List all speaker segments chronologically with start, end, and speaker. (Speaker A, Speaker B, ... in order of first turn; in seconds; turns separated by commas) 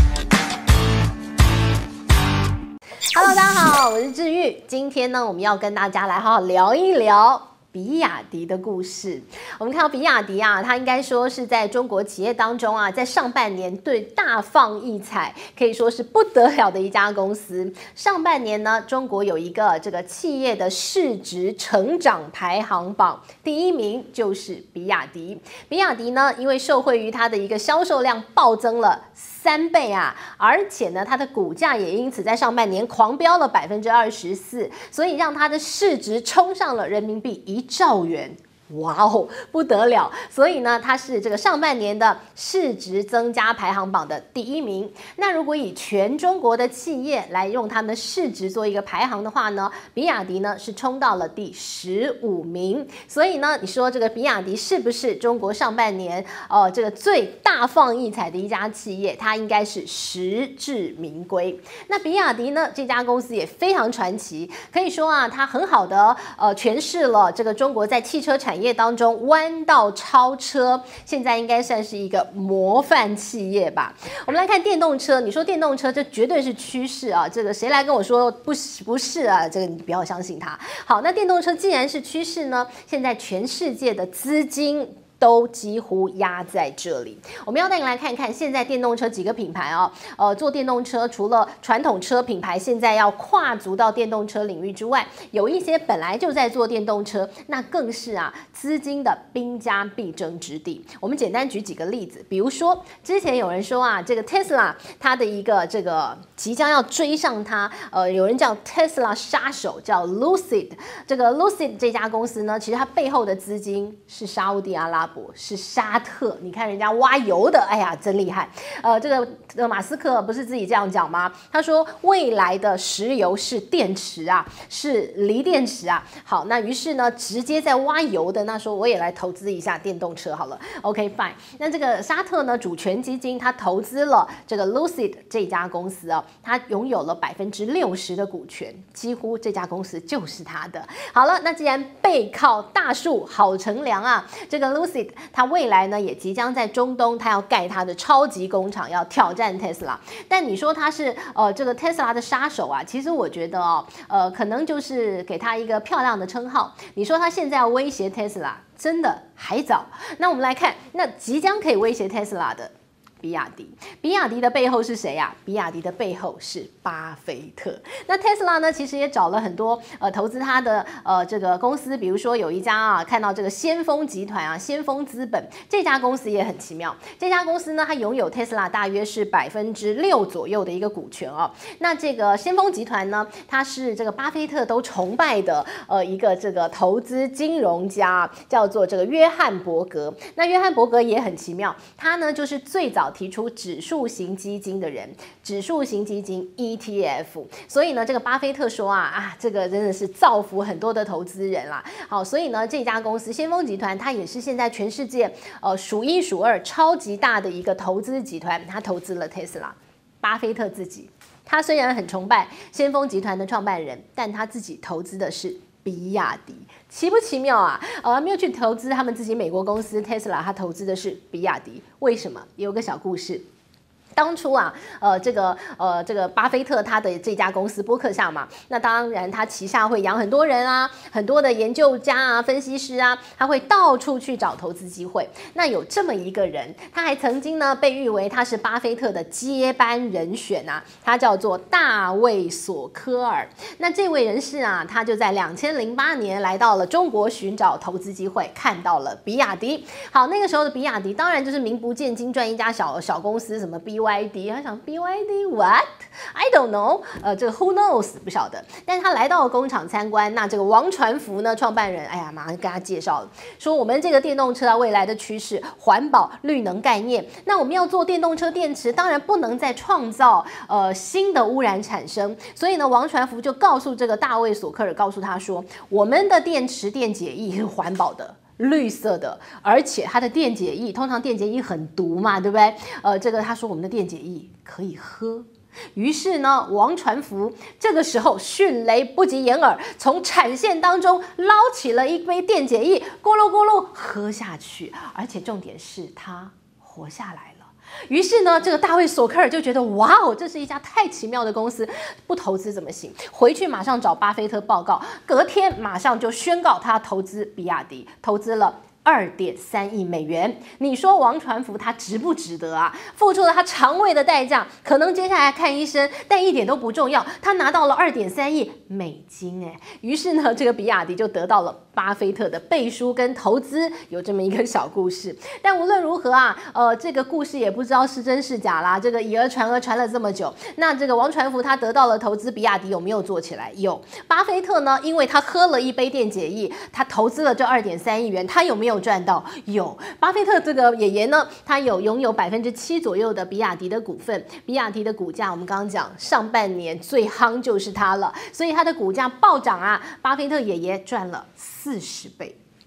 Speaker A: 3.1-223.4, Speaker A: 224.2-352.6